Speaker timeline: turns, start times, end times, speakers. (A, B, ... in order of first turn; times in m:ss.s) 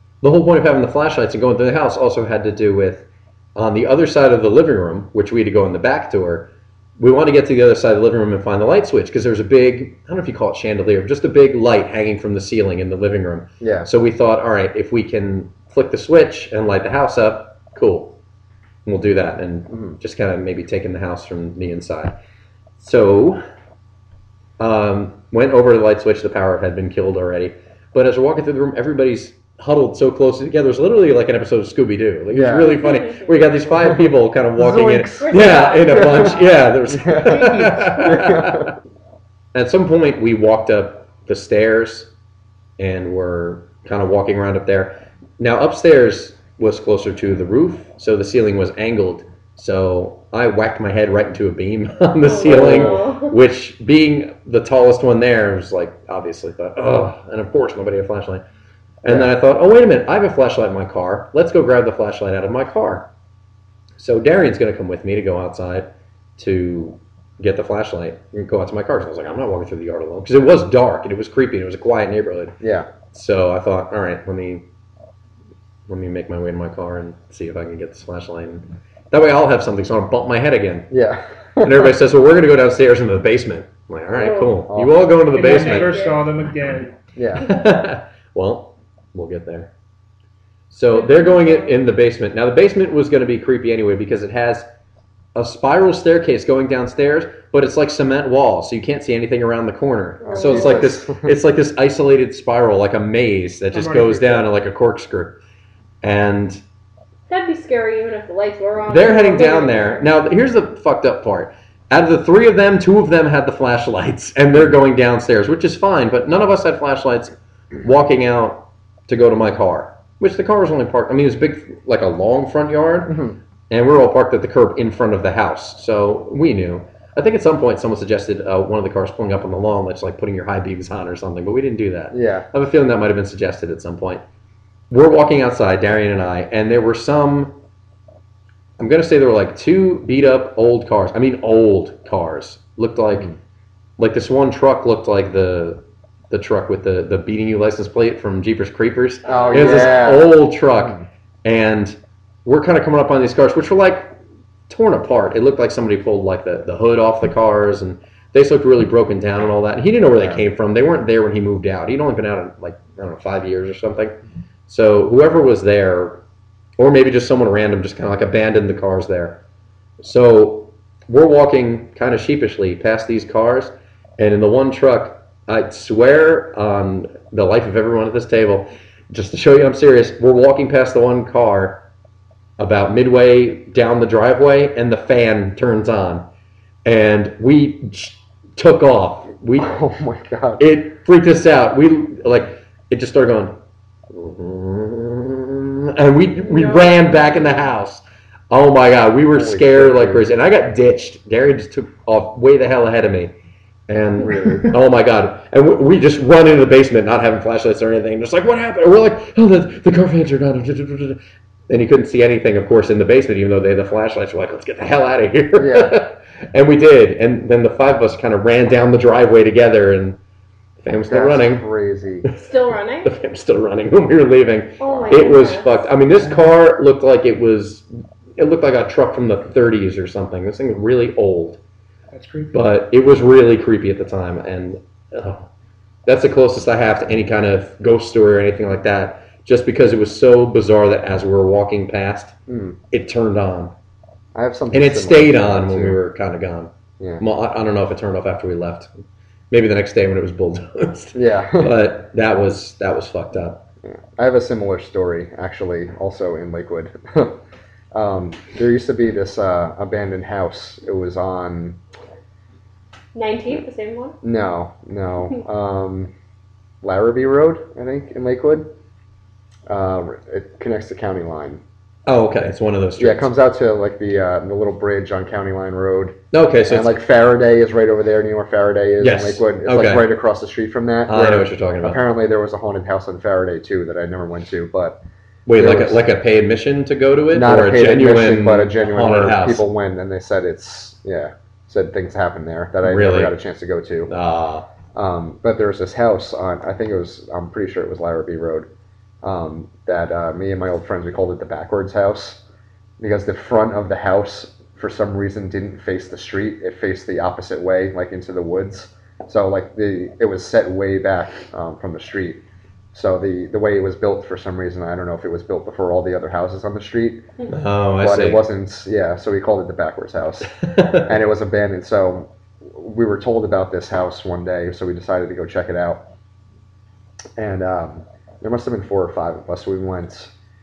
0:00.2-0:18.2 A
0:13.6-0:13.9 B
0:18.8-0:22.2 A
0:19.7-0:20.0 B
0:22.8-0:23.4 A
0:24.6-0:38.7 A
0:32.3-0:32.8 B
0:32.6-0:33.3 C
0:33.8-0:34.0 B
0:34.6-0:38.8 B
0:35.2-0:36.5 C
0:37.2-0:38.1 D
0:39.5-0:42.1 A
0:42.8-0:58.4 A
0:52.2-0:53.4 C
0:52.4-0:53.1 B
0:59.0-1:03.1 A
0:59.1-0:59.3 B
1:04.0-1:12.6 A
1:12.6-1:12.9 B
1:13.1-1:14.7 A
1:15.9-1:20.9 A
1:20.9-1:22.0 B
1:21.6-1:26.0 A
1:24.2-1:24.6 C
1:24.7-1:25.0 B
1:25.3-1:27.0 D
1:25.4-1:26.3 C
1:27.2-1:27.5 B
1:27.4-1:29.7 A
1:30.7-1:34.7 A
1:30.9-1:31.8 C
1:35.4-1:45.4 A
1:40.2-1:40.9 C
1:40.3-1:41.3 B
1:43.7-1:44.5 D
1:46.0-1:46.6 A
1:47.3-1:50.1 C
1:48.9-2:14.2 A
2:03.1-2:03.4 B
2:12.1-2:12.5 B
2:14.9-2:17.6 A
2:18.8-2:23.3 A
2:24.0-2:34.2 A
2:29.2-2:30.3 C
2:29.3-2:31.0 B
2:34.7-2:46.2 A
2:46.8-2:49.4 A
2:50.0-3:01.8 A
3:02.6-3:06.3 A
3:06.8-3:09.8 A
3:09.6-3:10.6 B
3:10.6-3:13.6 A
3:14.1-3:23.3 A
3:16.4-3:17.7 C
3:19.3-3:20.2 B
3:23.9-3:40.2 A
3:24.2-3:24.8 B
3:35.6-3:36.0 B
3:40.8-3:41.6 A
3:41.1-3:42.3 B
3:42.2-3:51.6 A
3:42.4-3:43.1 C
3:44.8-3:45.9 C
3:44.9-3:45.4 B
3:52.1-3:52.6 D
3:52.5-3:55.5 A
3:56.1-4:02.3 A
4:02.5-4:02.8 B
4:02.9-4:03.7 A
4:04.4-4:06.0 B
4:04.7-4:08.9 A
4:09.5-4:13.7 A
4:11.1-4:11.7 B
4:13.8-4:17.4 B
4:17.9-4:21.8 B
4:23.1-4:24.2 C
4:24.2-4:26.1 B
4:26.8-4:28.7 B
4:29.7-4:31.6 B
4:32.1-4:33.3 A
4:33.0-4:45.0 B
4:36.3-4:37.0 A
4:39.0-4:40.1 A
4:41.1-4:42.0 A
4:45.5-4:49.7 A
4:45.5-4:46.0 B
4:47.3-4:54.1 B
4:52.8-4:53.3 A
4:54.1-4:54.7 A
4:54.9-4:58.7 B
4:59.2-5:02.4 B
5:03.0-5:12.4 B
5:12.9-5:17.3 B
5:17.5-5:18.4 A
5:18.0-5:20.5 B
5:20.6-5:21.1 A
5:21.0-5:26.1 B
5:27.4-5:30.3 B